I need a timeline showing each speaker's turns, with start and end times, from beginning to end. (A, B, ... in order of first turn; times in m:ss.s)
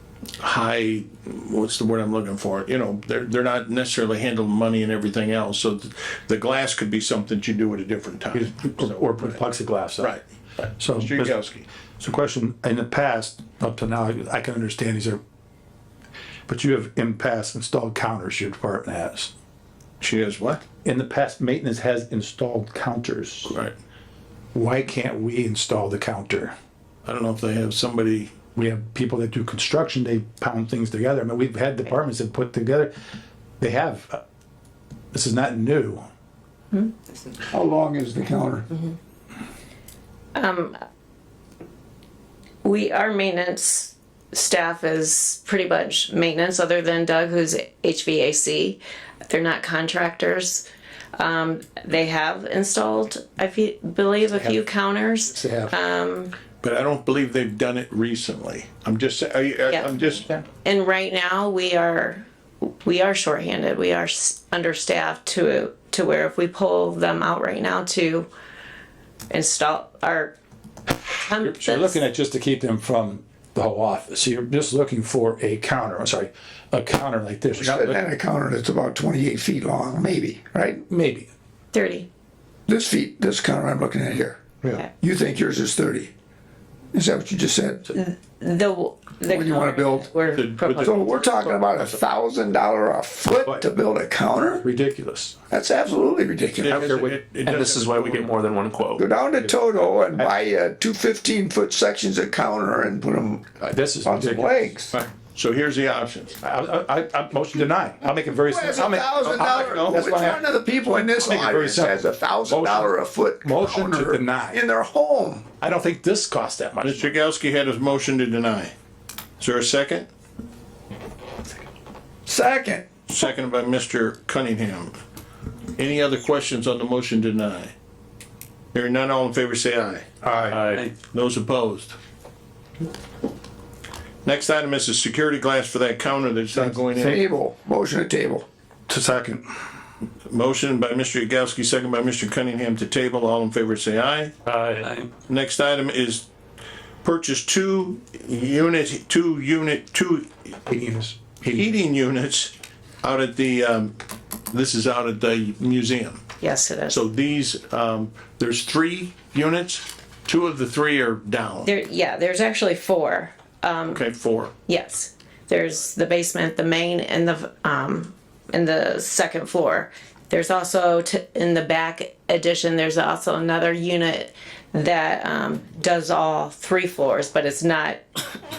0:00.4-0:09.4 A
0:08.3-0:10.2 B
0:10.0-0:11.7 A
0:10.8-0:11.4 B
0:12.0-0:15.2 B
0:16.5-0:19.3 B
0:20.0-0:20.6 A
0:20.8-0:23.6 B
0:23.5-0:23.8 A
0:24.5-0:26.5 B
0:27.0-0:28.3 A
0:28.6-0:32.9 B
0:33.6-0:34.2 B
0:35.1-0:36.1 B
0:37.5-0:38.7 C
0:40.4-0:40.8 D
0:42.6-0:50.6 D
0:51.2-0:56.3 D
0:55.3-0:55.7 B
0:56.6-1:00.4 A
1:00.6-1:02.2 D
1:02.8-1:08.3 D
1:09.3-1:10.4 D
1:11.2-1:12.0 D
1:11.4-1:18.0 B
1:17.6-1:20.8 C
1:20.9-1:21.3 B
1:21.7-1:22.1 D
1:22.7-1:24.4 C
1:25.0-1:26.1 C
1:26.9-1:27.9 C
1:27.9-1:31.1 D
1:29.2-1:30.1 C
1:30.3-1:32.0 A
1:30.8-1:34.6 C
1:33.4-1:33.7 B
1:34.5-1:35.4 B
1:35.5-1:36.9 C
1:36.6-1:38.3 A
1:36.7-1:37.2 B
1:37.4-1:39.0 E
1:39.0-1:43.5 C
1:43.6-1:45.0 B
1:44.0-1:45.0 C
1:45.3-1:46.4 A
1:46.4-1:50.5 B
1:48.5-1:55.5 C
1:51.2-1:54.6 B
1:55.6-1:57.1 B
1:56.8-1:58.7 A
1:59.4-2:00.1 A
2:02.3-2:02.8 C
2:03.1-2:05.0 A
2:05.8-2:07.7 A
2:08.7-2:10.1 A
2:10.2-2:10.8 B
2:10.5-2:10.8 E
2:10.9-2:12.0 A
2:14.2-2:17.2 A
2:16.6-2:17.2 B
2:16.9-2:18.4 C
2:18.9-2:19.5 B
2:20.3-2:24.4 A
2:24.5-2:25.0 E
2:25.3-2:26.2 A
2:27.0-2:30.3 A
2:30.7-2:31.8 B
2:31.5-2:34.0 A
2:34.5-2:36.2 A
2:36.4-2:37.0 D
2:36.9-2:41.7 A
2:41.6-2:44.0 D
2:43.9-2:44.5 A
2:44.7-2:58.2 D